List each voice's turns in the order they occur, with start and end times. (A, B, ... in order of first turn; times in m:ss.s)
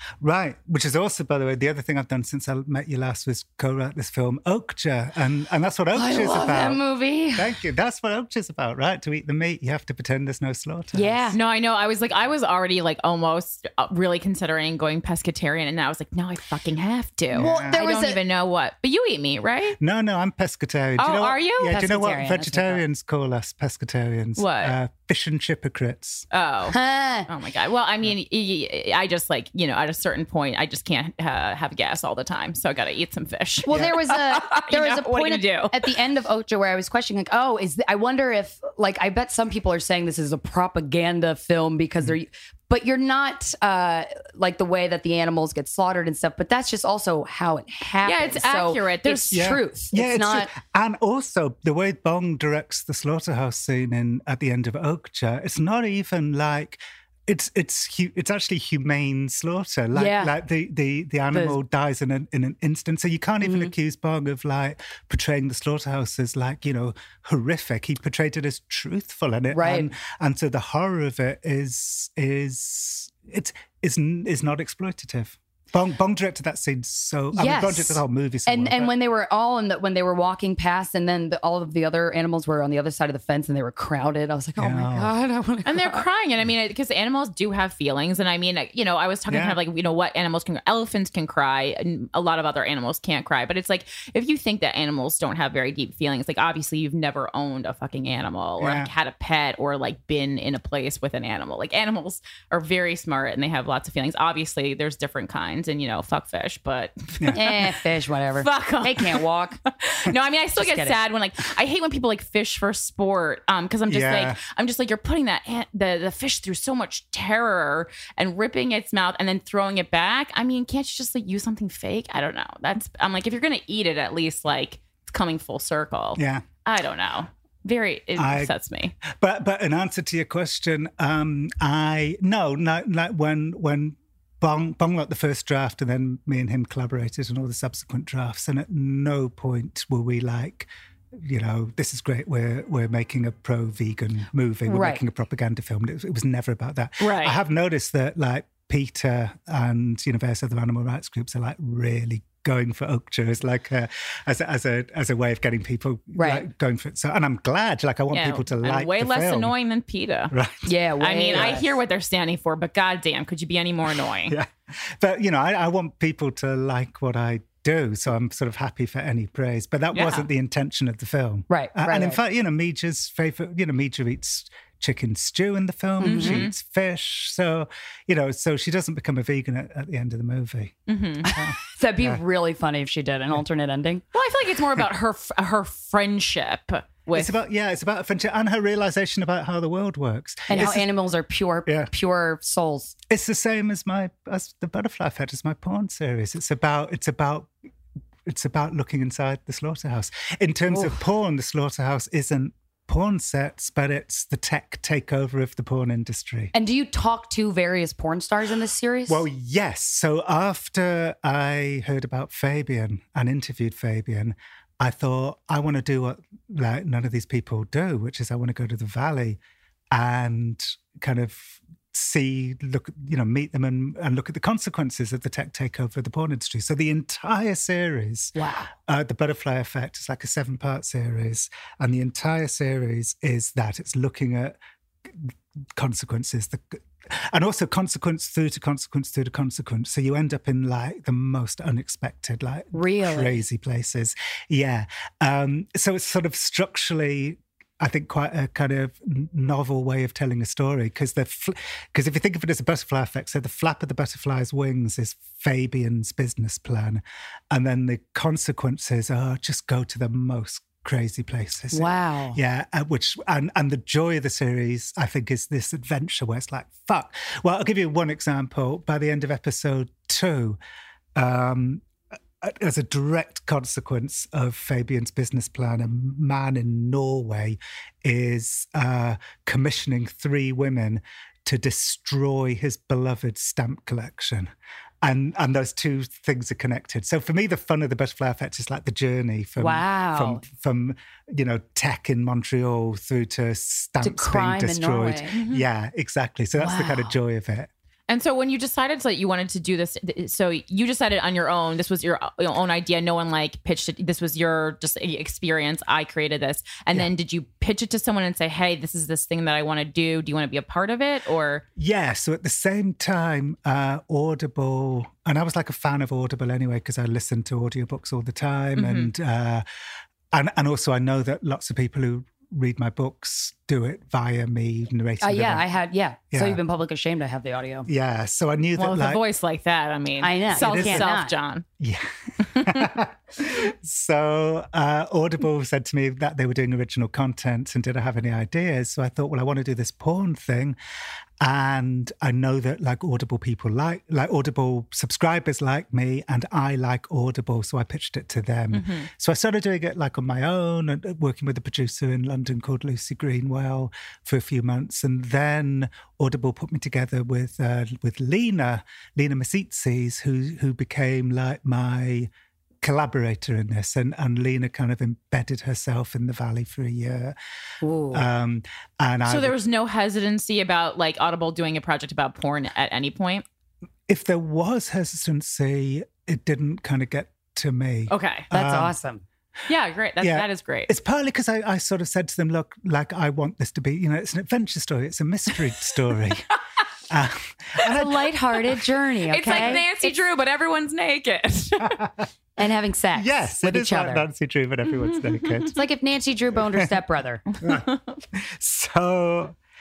0:00.2-0:06.8 A
0:05.9-0:07.5 B
0:07.3-0:11.3 A
0:10.9-0:11.4 B
0:11.3-0:19.8 C
0:17.3-0:17.8 A
0:17.3-0:18.2 B
0:19.8-0:26.2 A
0:21.0-0:21.8 C
0:21.6-0:22.8 B
0:24.4-0:24.8 C
0:26.3-0:35.9 C
0:26.7-0:27.3 B
0:33.6-0:50.5 B
0:48.0-0:49.4 C
0:49.3-1:18.9 A
0:59.9-1:00.3 B
1:03.4-1:03.7 B
1:09.5-1:09.9 B
1:17.3-1:26.0 B
1:24.6-1:25.1 A
1:25.6-1:47.7 C
1:29.3-1:29.6 A
1:38.6-1:38.9 A
1:47.3-1:49.6 B
1:48.4-1:49.2 C
1:49.8-2:08.9 C
1:50.6-1:51.0 B
1:53.9-1:54.4 A
2:06.2-2:06.4 A
2:08.2-2:08.5 A
2:09.0-2:39.5 A
2:24.7-2:25.0 B
2:27.0-2:27.4 C
2:36.2-2:36.5 B
2:38.1-2:40.3 C
2:40.3-2:40.7 A
2:40.6-2:41.6 B
2:41.0-2:44.4 C
2:41.3-2:41.6 A
2:44.3-3:02.2 A
2:49.9-2:50.3 C
2:51.5-2:52.2 B
2:56.0-2:56.4 B
2:56.0-2:56.5 C
3:00.9-3:01.3 C
3:01.7-3:04.0 B
3:04.1-3:07.3 C
3:07.1-3:10.9 A
3:10.5-3:12.9 B
3:11.6-3:11.9 A
3:13.1-3:17.5 A
3:18.2-3:26.5 A
3:26.5-3:29.2 B
3:29.1-3:39.4 A
3:39.9-3:48.3 A
3:48.4-3:48.7 B
3:48.9-3:54.5 A
3:55.1-4:30.6 A
4:02.7-4:03.4 B
4:21.7-4:22.4 B
4:31.2-4:31.8 A
4:32.4-4:44.5 A
4:45.0-4:57.7 A
4:49.6-4:50.4 B
4:54.0-4:55.3 B
4:55.3-4:55.6 C
4:56.6-4:57.1 B
4:58.1-5:11.6 C
5:11.8-5:19.6 A
5:18.8-5:19.1 C
5:20.3-5:25.6 A
5:25.2-5:27.9 B
5:26.3-5:26.6 A
5:27.9-5:29.2 A
5:28.8-5:31.6 C
5:30.2-5:31.3 B
5:30.5-5:31.1 A
5:31.8-5:40.8 A
5:32.4-5:32.8 C
5:41.4-6:02.3 A
5:48.7-5:49.1 C
6:02.8-6:07.3 A
6:07.8-6:08.2 B
6:08.1-6:09.5 A
6:09.2-6:13.4 C
6:14.1-6:18.9 A
6:18.1-6:18.5 C
6:18.5-6:19.2 B
6:19.7-6:20.9 C
6:20.2-6:26.5 A
6:27.1-6:28.8 A
6:27.8-6:29.9 B
6:29.3-6:32.0 C
6:29.5-6:29.8 A
6:31.9-6:32.2 A
6:32.6-6:34.2 B
6:33.1-6:35.8 A
6:35.1-6:35.6 C
6:35.7-6:37.4 B
6:37.5-6:38.1 C
6:37.6-6:39.5 A